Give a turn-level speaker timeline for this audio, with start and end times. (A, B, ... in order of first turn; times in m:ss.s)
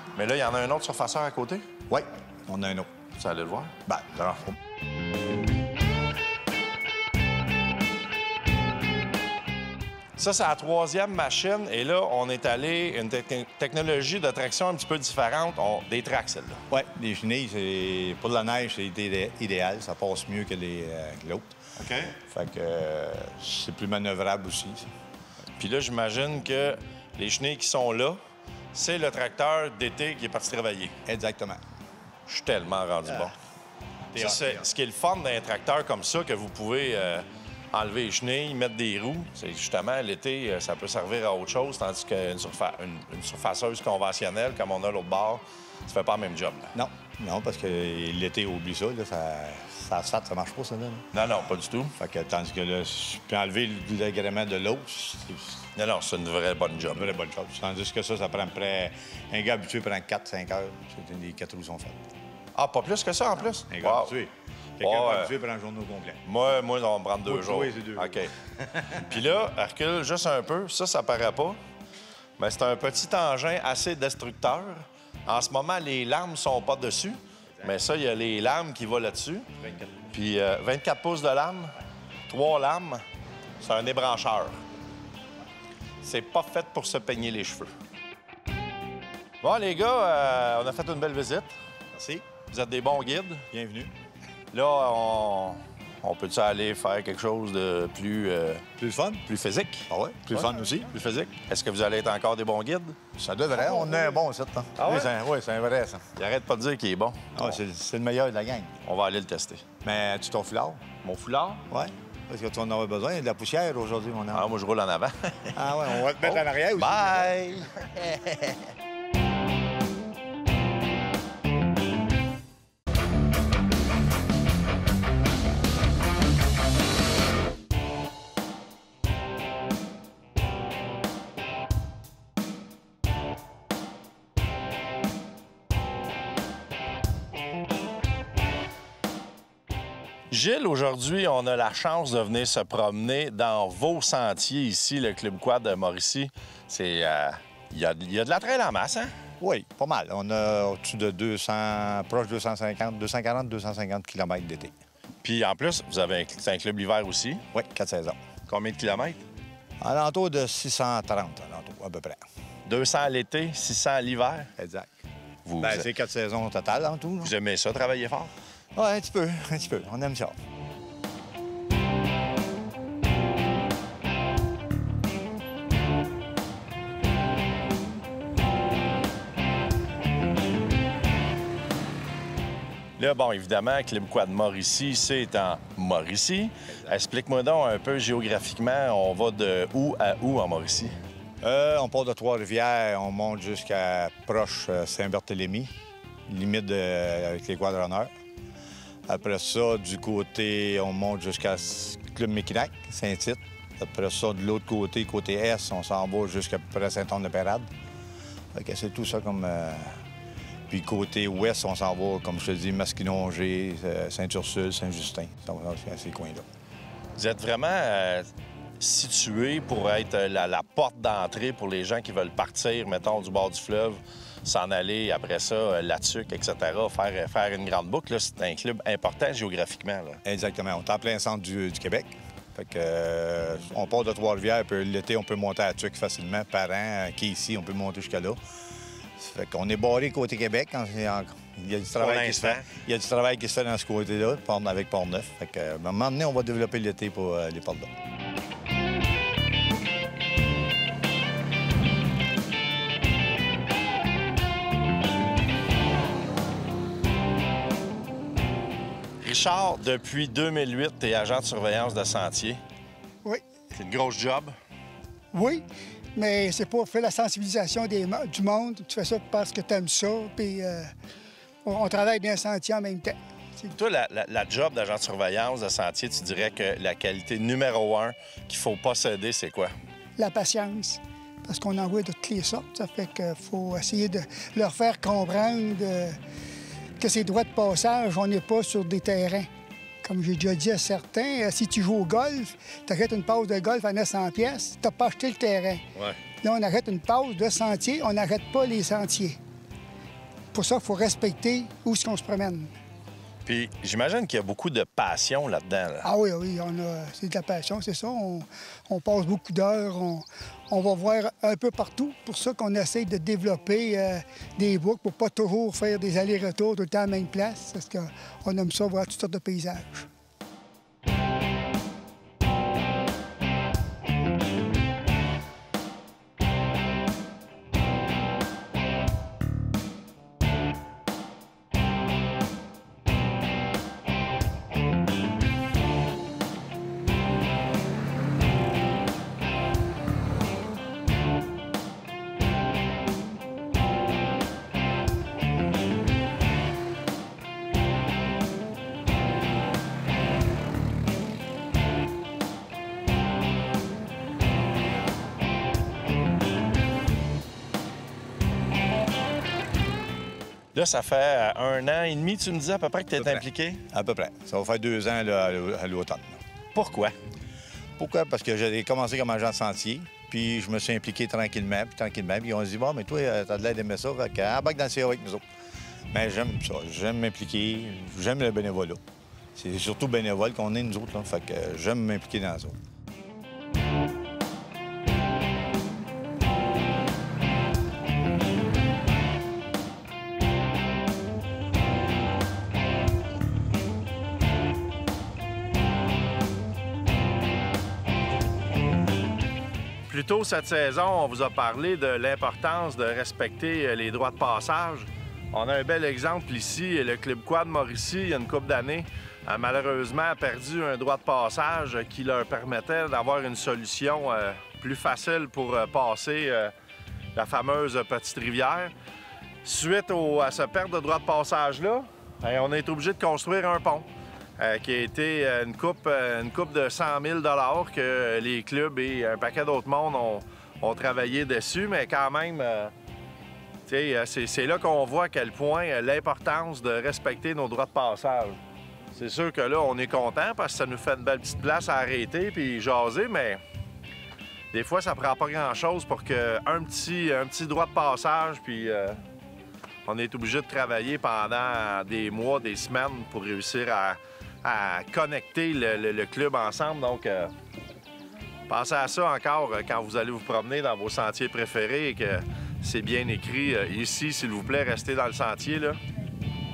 0:00.1-0:01.7 A
0:01.9-0:02.9 B
0:03.2-0:03.7 A
0:03.9-0:04.6 B
0:10.2-0:16.6 A
0:16.7-0:21.6 B
0:21.8-0:22.2 A
0:22.2-0:24.9 B
0:25.6-0:28.2 A
0:28.7-0:31.0 A
0:31.1-0:31.6 B
0:32.3-0:33.3 A
0:33.0-0:33.3 B
0:34.1-0:46.8 A
0:34.1-0:34.7 B
0:46.7-0:51.1 B
0:51.1-0:52.0 A
0:52.0-0:55.7 B
0:55.8-0:57.1 A
0:56.9-1:02.0 B
1:02.6-1:04.1 A
1:03.7-1:06.2 B
1:04.8-1:05.3 A
1:06.2-1:08.3 A
1:07.3-1:09.1 B
1:08.9-1:11.6 A
1:12.4-1:19.5 A
1:19.6-1:20.0 B
1:20.1-1:21.8 A
1:22.3-1:23.0 A
1:23.6-1:24.6 A
1:26.0-1:27.7 A
1:29.4-1:31.6 A
1:31.9-1:32.3 B
1:32.5-1:33.5 A
1:33.5-1:33.9 B
1:34.5-1:38.7 A
1:38.8-1:39.2 B
1:39.3-1:43.0 A
1:39.9-1:40.9 B
1:43.2-1:46.0 B
1:44.8-1:45.1 A
1:46.2-1:47.6 A
1:47.4-1:48.8 B
1:48.8-1:49.6 A
1:49.8-1:50.8 B
1:51.0-1:51.6 A
1:51.7-1:54.5 B
1:54.3-1:58.4 A
1:55.6-1:57.9 B
2:20.3-2:29.1 A
2:29.4-2:34.7 B
2:35.2-2:37.4 A
2:37.5-2:38.2 B
2:38.5-2:39.2 A
2:39.8-2:42.2 B
2:42.7-2:44.5 A
2:44.6-2:44.9 B
2:45.5-2:45.9 A
2:45.6-2:47.3 B
2:47.2-2:48.3 A
2:48.8-2:50.4 B
3:03.0-3:11.0 A
3:11.4-3:15.8 B
3:16.3-3:18.1 B
3:19.1-3:27.7 B
3:28.5-3:30.0 B
3:30.7-3:36.4 B
3:37.2-3:50.2 A
3:50.2-3:58.4 B
3:59.2-4:07.9 B
4:02.0-4:02.7 A
4:19.2-4:22.6 A
4:23.7-4:24.6 A
4:25.3-4:25.6 C
4:26.2-4:30.9 C
4:31.6-4:33.7 C
4:33.7-4:39.7 A
4:40.2-4:46.2 C
4:47.0-4:49.5 C
4:50.0-4:55.8 C
4:56.4-4:59.4 C
5:00.5-5:02.7 C
5:03.4-5:06.1 A
5:06.0-5:20.1 C
6:00.8-6:03.8 A
6:03.2-6:06.4 B
6:06.7-6:07.2 A
6:08.0-6:15.4 B
6:16.1-6:19.0 B
6:19.6-6:22.8 B
6:40.1-6:56.7 A
6:57.4-6:58.9 A
6:59.6-7:04.1 A
7:04.6-7:12.9 A
7:13.9-7:18.6 A
7:19.1-7:23.6 A
7:24.7-7:29.2 A
7:30.0-7:37.5 A
7:38.7-7:46.0 A